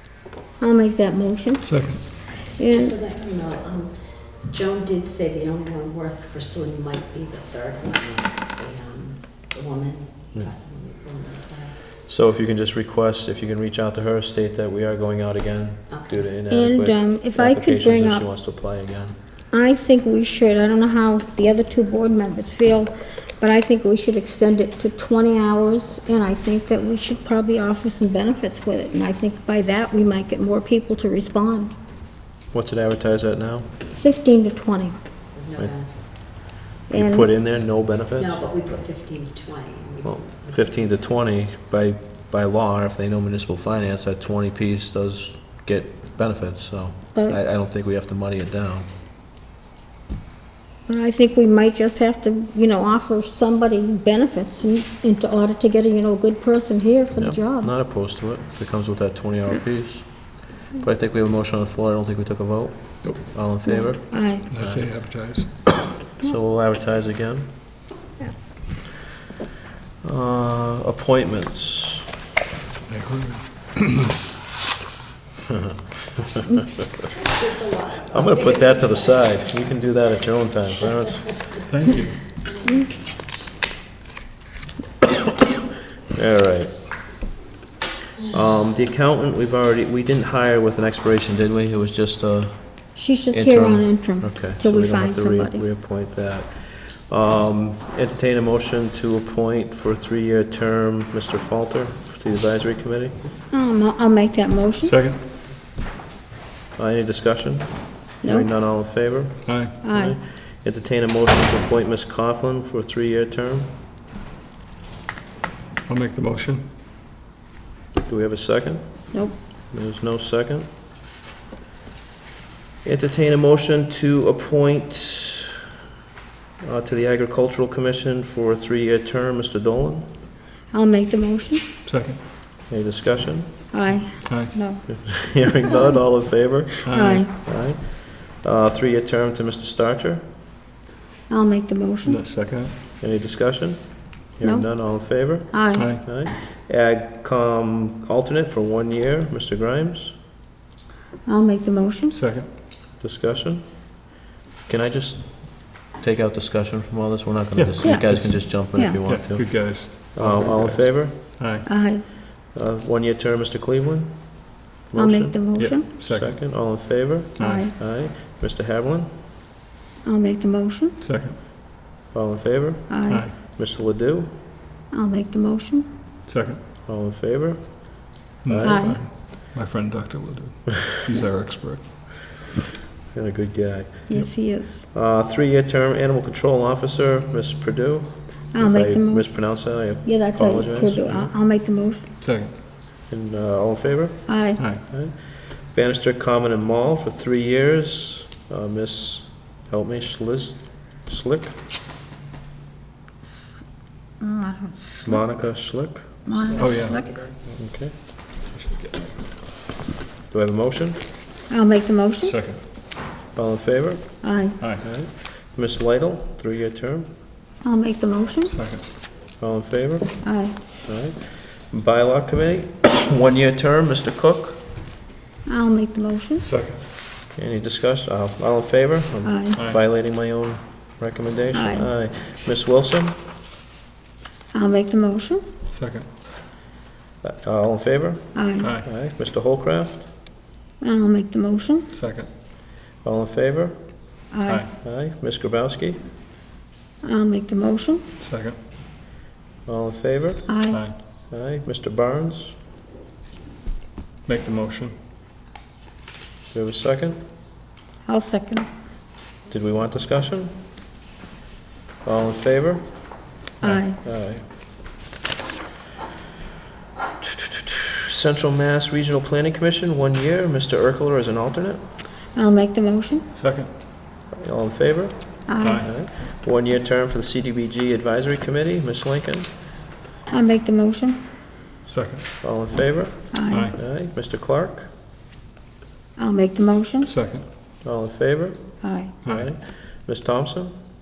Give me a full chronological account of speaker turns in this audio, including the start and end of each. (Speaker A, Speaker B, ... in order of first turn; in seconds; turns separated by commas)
Speaker A: 0.6-1.6, Speaker B: 1.6-2.0, Speaker A: 2.5-3.0, Speaker C: 2.7-11.8, Speaker D: 12.1-19.2, Speaker C: 15.9-16.3, Speaker A: 16.5-18.3, Speaker A: 19.5-31.7, Speaker D: 32.5-33.7, Speaker A: 34.0-35.0, Speaker C: 35.4-36.2, Speaker A: 36.9-37.3, Speaker D: 36.9-38.5, Speaker C: 38.2-41.0, Speaker D: 40.0-48.9, Speaker A: 50.9-57.7, Speaker D: 57.2-64.9, Speaker A: 63.6-64.5, Speaker B: 64.5-65.7, Speaker D: 66.2-67.5, Speaker D: 70.0-72.0, Speaker B: 72.9-74.2, Speaker C: 77.2-79.3, Speaker D: 78.1-81.5, Speaker B: 81.7-82.3, Speaker D: 86.1-86.7, Speaker D: 88.3-103.2, Speaker A: 93.0-95.6, Speaker A: 103.5-105.0, Speaker B: 104.8-105.2, Speaker D: 106.8-113.7, Speaker A: 108.2-108.5, Speaker B: 109.5-109.8, Speaker A: 109.8-110.2, Speaker B: 115.9-116.6, Speaker D: 118.1-120.7, Speaker D: 122.8-125.6, Speaker D: 126.6-130.1, Speaker A: 130.7-131.7, Speaker B: 131.8-132.2, Speaker D: 132.7-133.6, Speaker A: 133.7-135.9, Speaker B: 133.9-134.6, Speaker D: 134.9-140.2, Speaker B: 136.8-137.3, Speaker A: 136.9-137.3, Speaker A: 141.3-142.2, Speaker B: 142.1-142.7, Speaker D: 143.0-150.2, Speaker A: 144.4-144.9, Speaker A: 145.5-145.9, Speaker B: 145.7-146.2, Speaker A: 151.3-152.2, Speaker B: 152.1-152.5, Speaker D: 153.0-154.0, Speaker D: 154.7-161.2, Speaker B: 157.6-158.5, Speaker A: 157.8-159.0, Speaker B: 159.0-161.7, Speaker A: 161.7-162.0, Speaker D: 162.5-169.1, Speaker A: 164.9-165.9, Speaker B: 165.6-166.4, Speaker B: 167.4-167.7, Speaker A: 167.4-167.7, Speaker A: 170.0-170.9, Speaker B: 171.0-171.4, Speaker D: 172.1-174.3, Speaker A: 172.9-173.2, Speaker B: 173.1-173.3, Speaker A: 174.9-175.9, Speaker B: 176.3-176.6, Speaker D: 176.9-178.8, Speaker B: 178.4-182.1, Speaker A: 178.6-179.0, Speaker D: 183.1-191.3, Speaker A: 184.1-184.8, Speaker A: 188.5-192.1, Speaker B: 192.2-192.5, Speaker D: 193.1-201.6, Speaker A: 194.3-194.6, Speaker B: 194.6-194.8, Speaker A: 203.2-205.3, Speaker D: 205.0-206.2, Speaker A: 206.3-207.2, Speaker C: 206.5-207.4, Speaker B: 206.6-207.6, Speaker D: 207.6-207.9, Speaker B: 208.3-209.2, Speaker D: 210.3-211.0, Speaker A: 211.5-212.3, Speaker B: 212.2-212.6, Speaker D: 213.3-217.1, Speaker A: 214.2-214.6, Speaker B: 214.6-214.8, Speaker A: 217.6-218.5, Speaker B: 218.4-218.8, Speaker D: 219.4-220.2, Speaker A: 220.2-220.6, Speaker D: 220.8-224.6, Speaker A: 225.5-226.5, Speaker B: 226.4-226.8, Speaker D: 227.3-233.2, Speaker A: 229.2-229.6, Speaker B: 229.6-229.8, Speaker A: 231.5-231.9, Speaker A: 234.5-235.4, Speaker B: 235.7-236.1, Speaker D: 237.2-240.1, Speaker A: 238.3-238.7, Speaker B: 238.6-238.9, Speaker A: 240.8-241.9, Speaker B: 241.9-242.3, Speaker D: 243.0-243.9, Speaker A: 244.3-244.7, Speaker D: 244.8-246.0, Speaker A: 247.0-248.0, Speaker B: 248.2-248.6, Speaker D: 249.7-250.5, Speaker A: 250.5-250.8, Speaker B: 250.7-250.9, Speaker D: 251.3-252.6, Speaker B: 254.2-254.9, Speaker D: 256.5-257.2, Speaker A: 258.1-258.7, Speaker D: 259.5-260.5, Speaker D: 262.0-263.1, Speaker A: 263.6-264.0, Speaker D: 263.8-264.4, Speaker D: 267.2-271.8, Speaker A: 272.3-273.2, Speaker B: 273.4-273.7, Speaker D: 274.4-279.5, Speaker A: 275.5-275.8, Speaker B: 275.6-276.0, Speaker A: 280.3-281.2, Speaker B: 281.9-282.3, Speaker D: 282.4-284.9, Speaker A: 283.3-283.7, Speaker B: 283.5-283.8, Speaker A: 286.2-287.1, Speaker B: 287.0-287.4, Speaker D: 287.8-290.7, Speaker A: 288.8-289.1, Speaker B: 289.2-289.5